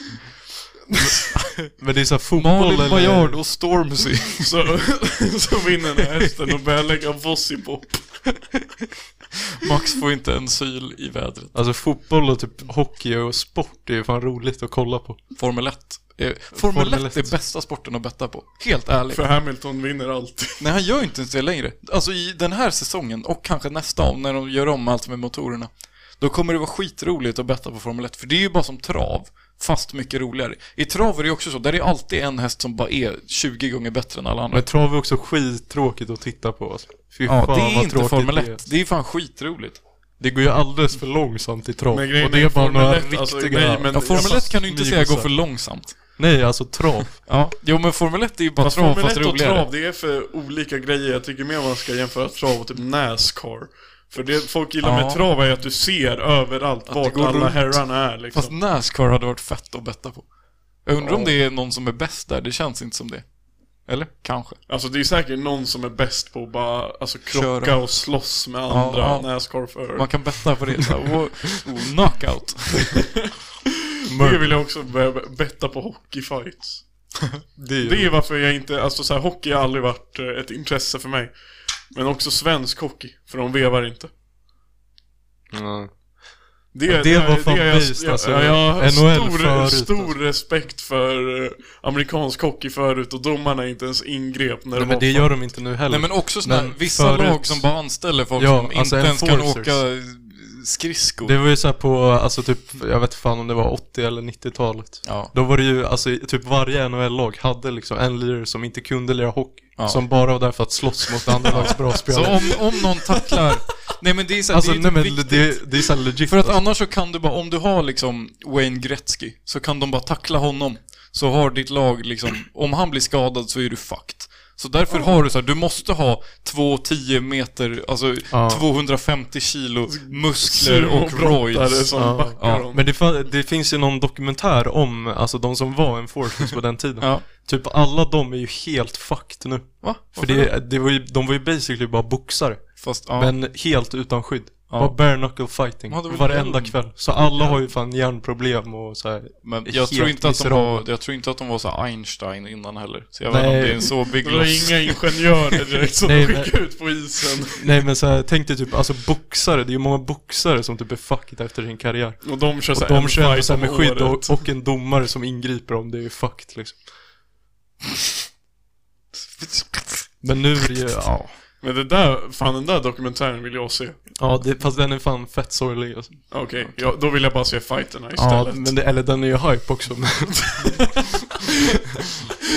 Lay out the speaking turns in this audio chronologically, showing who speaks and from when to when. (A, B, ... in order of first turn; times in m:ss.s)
0:01.1-0:01.7 A
0:01.6-0:03.4 B
0:02.4-0:04.5 A
0:04.4-0:08.2 C
0:09.6-0:11.5 A
0:11.5-0:15.2 B
0:15.4-0:19.2 A
0:16.5-0:17.4 B
0:19.1-0:20.6 C
0:20.6-0:34.6 A
0:34.5-0:38.6 B
0:37.2-0:39.8 A
0:40.2-0:45.3 B
0:41.9-0:44.6 C
0:43.9-0:46.0 A
0:46.1-0:47.2 B
0:47.2-0:49.7 A
0:48.6-0:58.6 C
0:54.8-0:55.2 A
0:56.9-1:00.3 A
1:00.8-1:03.3 A
1:01.0-1:01.3 C
1:03.8-1:04.6 A
1:04.7-1:10.3 C
1:07.3-1:08.1 A
1:08.7-1:13.0 A
1:13.0-1:13.3 C
1:14.1-1:14.6 B
1:14.1-1:16.8 C
1:17.6-1:18.1 B
1:17.8-1:21.3 C
1:21.9-1:24.1 C
1:25.5-1:25.9 B
1:26.7-1:35.5 C
1:26.8-1:30.1 B
1:34.7-1:37.7 B
1:35.9-1:41.4 A
1:38.3-1:39.8 B
1:41.2-1:52.8 B
1:45.0-1:45.3 A
1:49.8-1:50.0 A
1:51.5-2:12.7 A
1:54.5-1:56.6 B
2:08.3-2:08.6 B
2:09.9-2:12.8 C
2:11.9-2:30.8 B
2:17.0-2:17.2 A
2:19.8-2:20.5 A
2:22.8-2:23.3 A
2:24.7-2:25.0 A
2:25.9-2:27.6 A
2:29.4-2:35.0 A
2:33.3-2:33.9 B
2:34.2-2:37.7 C
2:36.0-2:36.6 B
2:37.6-2:46.8 B
2:42.2-2:44.4 C
2:49.1-2:50.1 A
2:50.2-2:51.3 B
2:51.6-2:54.0 C
2:54.2-2:56.4 B
2:56.3-2:58.7 C
2:58.1-3:00.8 B
3:00.6-3:01.8 C